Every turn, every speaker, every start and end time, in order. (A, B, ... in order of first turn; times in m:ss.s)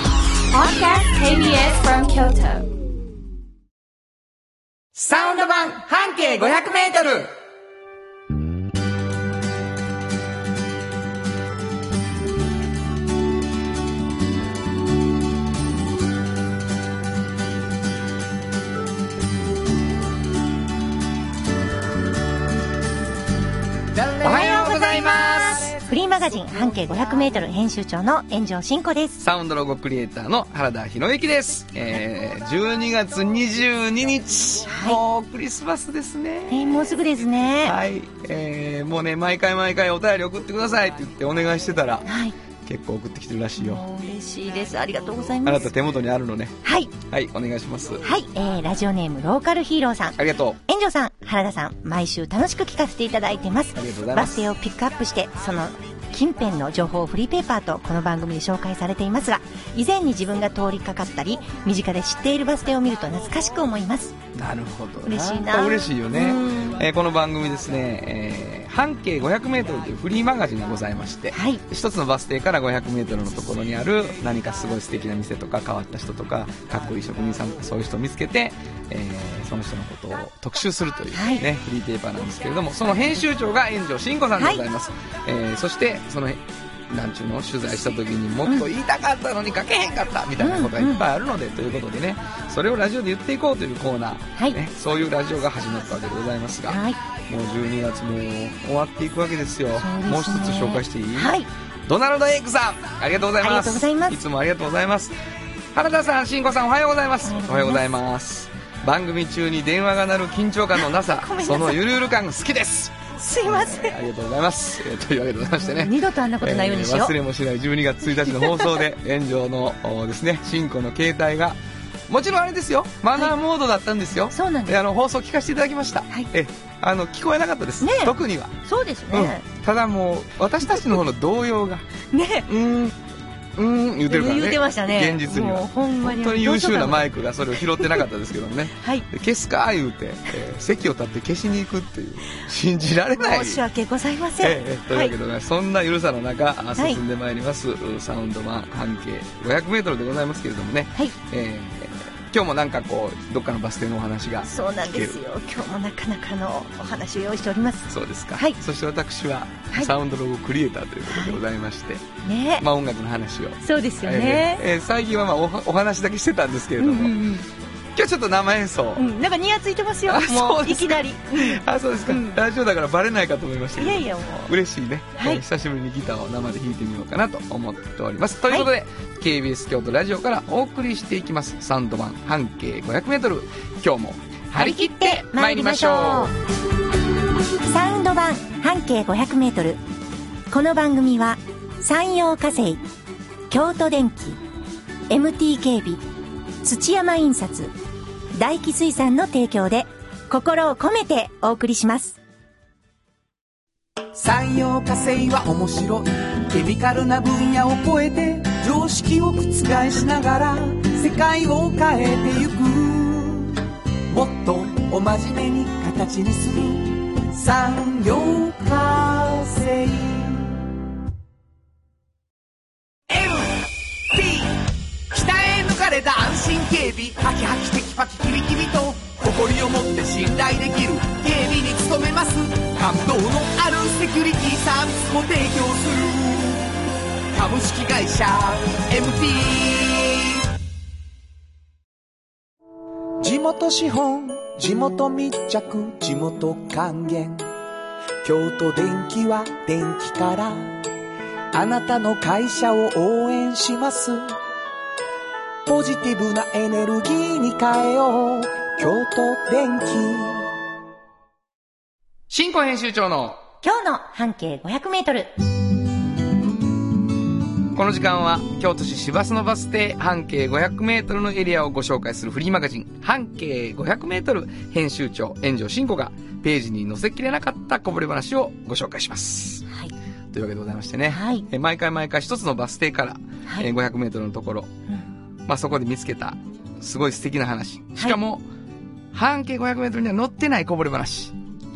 0:00.5-0:02.7 A
0:05.0-0:07.3 B
0:23.9-0:24.8 C
0:24.2-0:25.7 B
0:24.2-0:29.2 D
0:29.2-0:36.7 B
0:34.7-0:35.0 D
0:36.5-0:37.8 D
0:37.6-0:42.1 B
0:42.1-0:42.4 D
0:42.6-0:43.8 B
0:43.6-0:45.7 D
0:45.4-0:48.0 B
0:46.6-0:46.9 D
0:48.0-1:04.2 D
0:50.2-0:50.6 B
0:53.8-0:54.5 B
1:04.3-1:41.3 B
1:05.0-1:06.8 D
1:11.3-1:11.6 D
1:21.1-1:21.4 D
1:30.4-1:31.1 D
1:36.7-1:37.0 D
1:39.8-1:41.5 D
1:41.9-1:45.2 B
1:43.4-1:44.2 D
1:45.7-2:08.6 B
1:47.2-1:47.8 D
1:51.0-1:51.8 D
1:53.2-1:54.0 D
1:55.5-1:57.2 D
1:58.4-1:58.6 D
2:04.3-2:04.8 D
2:07.8-2:08.1 D
2:08.6-2:09.4 D
2:09.1-2:11.8 B
2:12.1-2:12.5 D
2:12.5-2:13.0 B
2:13.6-2:23.6 B
2:14.1-2:17.1 D
2:17.7-2:18.0 D
2:18.7-2:19.1 D
2:23.2-2:25.1 D
2:24.4-2:35.2 B
2:34.4-2:38.6 D
2:37.9-2:42.0 B
2:41.1-2:41.4 D
2:42.2-2:42.6 D
2:42.6-2:47.2 B
2:43.6-2:44.6 D
2:46.8-2:47.4 D
2:48.0-2:49.0 B
2:49.0-2:52.4 D
2:50.1-3:06.3 B
2:53.8-2:54.5 D
2:55.2-2:55.4 D
3:04.5-3:06.4 D
3:07.6-3:09.8 D
3:10.5-3:12.8 D
3:13.5-3:14.4 D
3:15.1-3:16.0 D
3:16.6-3:17.7 D
3:18.3-3:22.2 D
3:24.1-3:40.6 C
3:43.1-3:56.8 C
3:57.3-4:00.4 C
4:03.2-4:07.5 C
4:08.2-4:10.8 C
4:11.5-4:14.3 C
4:15.7-4:20.5 C
4:22.3-4:23.4 B
4:23.6-4:25.3 D
4:27.7-4:39.7 B
4:40.3-4:44.7 B
4:41.1-4:41.5 D
4:45.5-4:48.4 B
4:49.1-4:51.4 B